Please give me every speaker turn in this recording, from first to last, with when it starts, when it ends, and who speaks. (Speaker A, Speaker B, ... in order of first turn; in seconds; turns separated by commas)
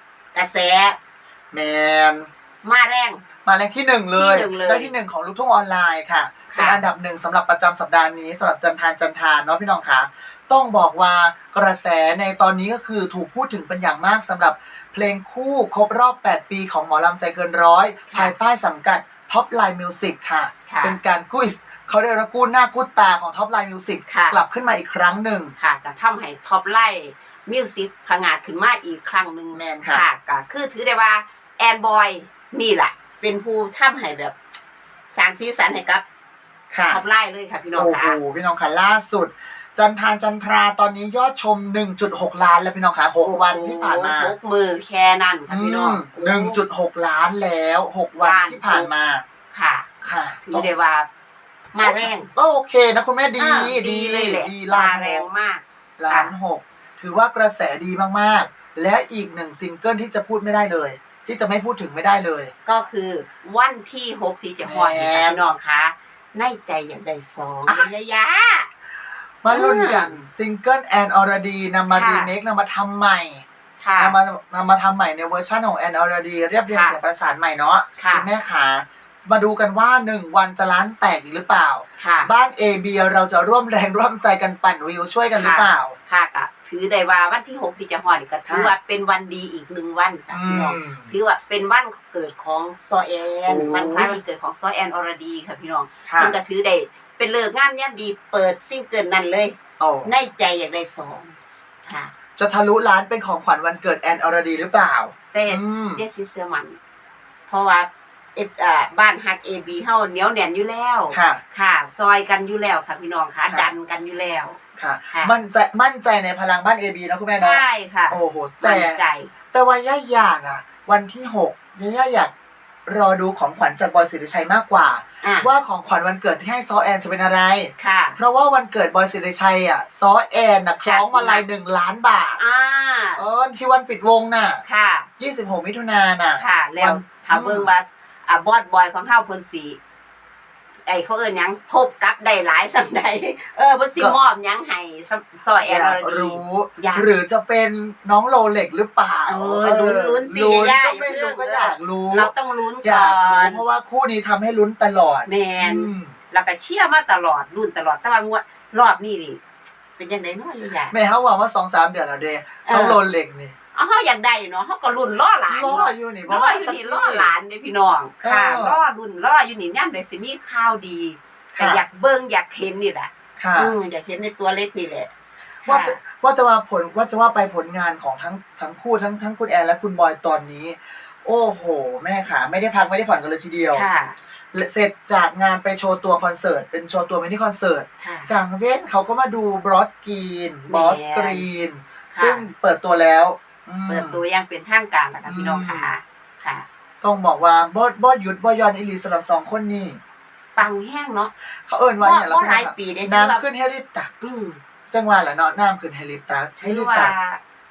Speaker A: 0.3-1.0, Speaker B: 1.5-2.3, Speaker A: 2.6-3.2, Speaker B: 3.4-25.5, Speaker A: 4.2-4.9, Speaker A: 6.5-6.8, Speaker A: 20.7-21.0, Speaker A: 24.1-24.4, Speaker A: 25.6-34.4, Speaker B: 29.5-30.0, Speaker A: 35.1-36.0, Speaker B: 36.7-37.0, Speaker A: 36.9-38.1, Speaker B: 37.8-44.3, Speaker A: 43.2-46.6, Speaker B: 45.5-49.2, Speaker A: 48.2-48.9, Speaker A: 49.5-49.9, Speaker B: 50.0-50.7, Speaker A: 50.4-51.1, Speaker A: 51.7-52.3, Speaker B: 51.8-55.2, Speaker A: 53.4-56.3, Speaker B: 56.0-62.5, Speaker A: 62.6-68.7, Speaker B: 64.6-65.4, Speaker B: 69.4-73.4, Speaker A: 69.5-70.2, Speaker A: 71.9-72.3, Speaker A: 73.8-74.2, Speaker B: 74.0-85.9, Speaker A: 76.7-77.0, Speaker A: 78.0-78.3, Speaker A: 82.0-82.3, Speaker A: 85.3-102.1, Speaker B: 90.3-91.1, Speaker B: 93.5-94.2, Speaker B: 96.1-96.3, Speaker B: 99.8-100.1, Speaker B: 102.4-106.0, Speaker A: 105.3-106.8, Speaker A: 107.5-114.6, Speaker B: 111.1-111.4, Speaker B: 114.8-119.0, Speaker A: 117.3-119.3, Speaker B: 119.5-122.3, Speaker B: 122.8-132.4, Speaker A: 125.2-125.5, Speaker A: 127.8-128.2, Speaker A: 130.8-131.4, Speaker A: 132.4-133.2, Speaker B: 133.2-134.6, Speaker A: 134.6-135.1, Speaker B: 135.2-137.7, Speaker A: 136.3-139.8, Speaker A: 140.8-147.1, Speaker B: 145.6-152.3, Speaker A: 149.2-153.6, Speaker B: 152.8-156.2, Speaker A: 155.2-159.4, Speaker A: 160.0-160.9, Speaker B: 160.9-163.5, Speaker A: 162.6-163.0, Speaker A: 163.7-175.1, Speaker B: 165.5-167.3, Speaker B: 168.2-168.8, Speaker B: 171.5-171.8, Speaker B: 173.4-173.7, Speaker A: 175.6-176.0, Speaker B: 175.7-183.8, Speaker A: 183.7-184.2, Speaker B: 184.5-194.2, Speaker A: 188.0-188.3, Speaker A: 190.7-191.4, Speaker A: 192.1-192.4, Speaker A: 193.9-196.7, Speaker B: 195.2-195.9, Speaker B: 197.0-200.0, Speaker A: 200.6-201.3, Speaker B: 201.7-204.1, Speaker A: 202.0-203.4, Speaker A: 204.2-204.6, Speaker B: 204.9-207.1, Speaker A: 206.6-207.4